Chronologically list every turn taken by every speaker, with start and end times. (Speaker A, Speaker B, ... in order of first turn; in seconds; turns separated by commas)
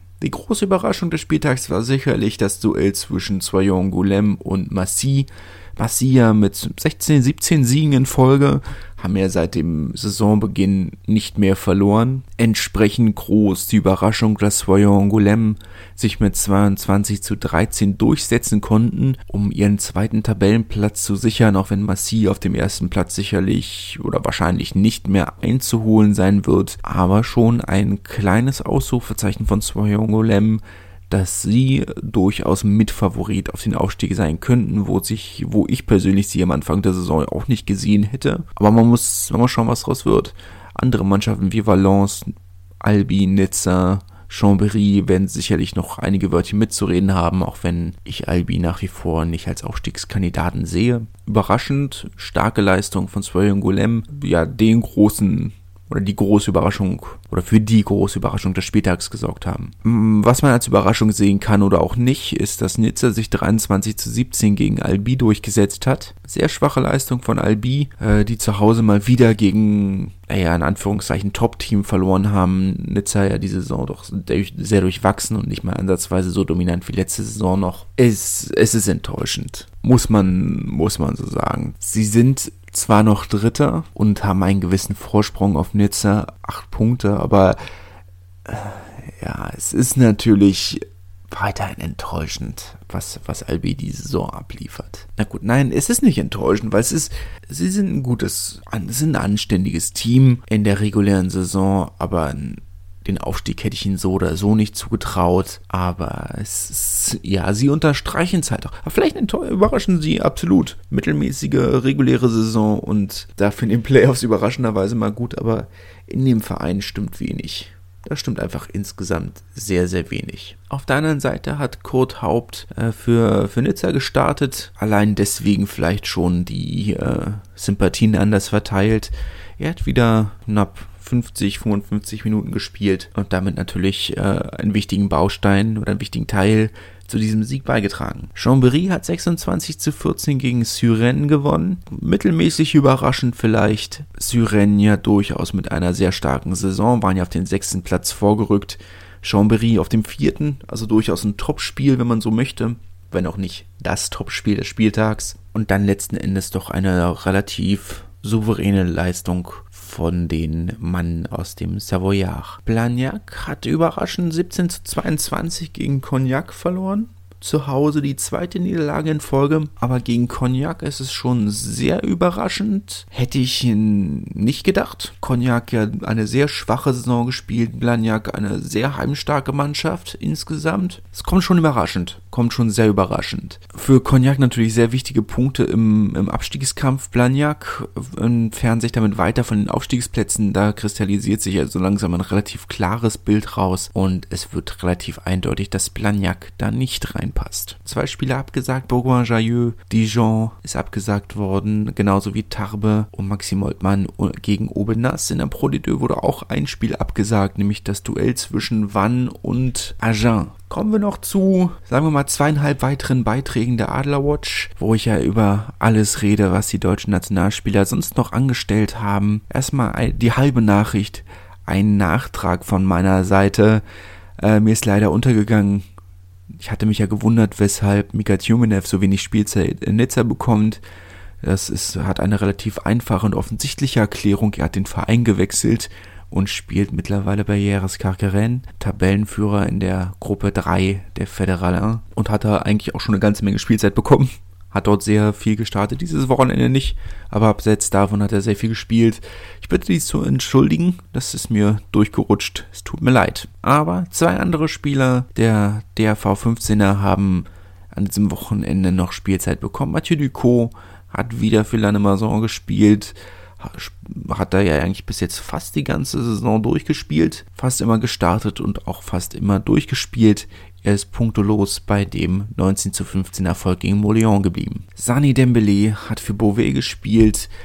Speaker A: 0.2-87.6, Speaker A: 88.5-223.8, Speaker A: 224.4-225.8, Speaker A: 226.6-230.8, Speaker A: 231.4-277.5